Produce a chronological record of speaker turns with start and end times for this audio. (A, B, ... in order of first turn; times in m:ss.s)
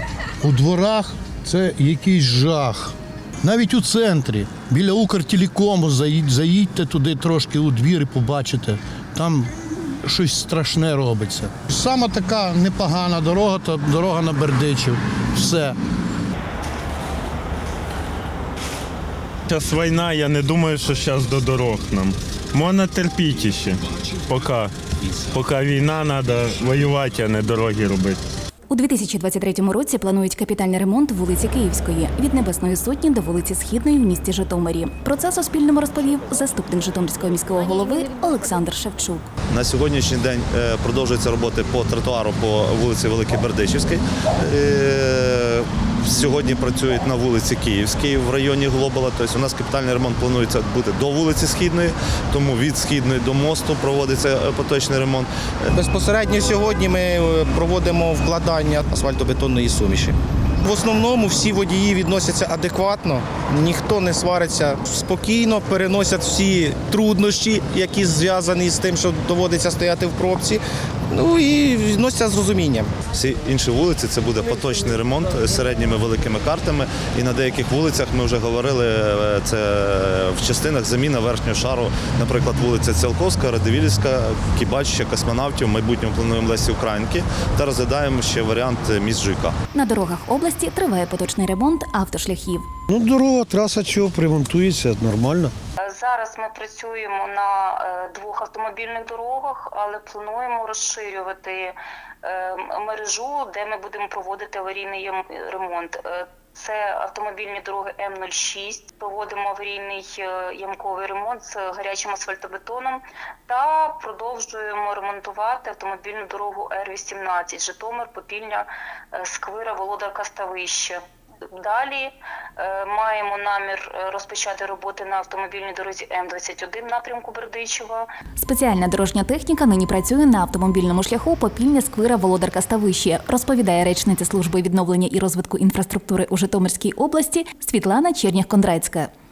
0:00.4-0:09.5 A
0:10.0-0:15.8 A
0:19.5-0:24.7 B
0:25.3-0:28.2 B
0:28.7-0:39.3 C
0:39.5-0:55.3 D
0:55.8-1:13.0 E
1:13.1-1:29.6 D
1:29.7-1:32.7 C
1:32.9-1:35.5 A
1:35.8-2:01.0 F
2:01.6-2:08.1 F
2:08.4-2:19.1 C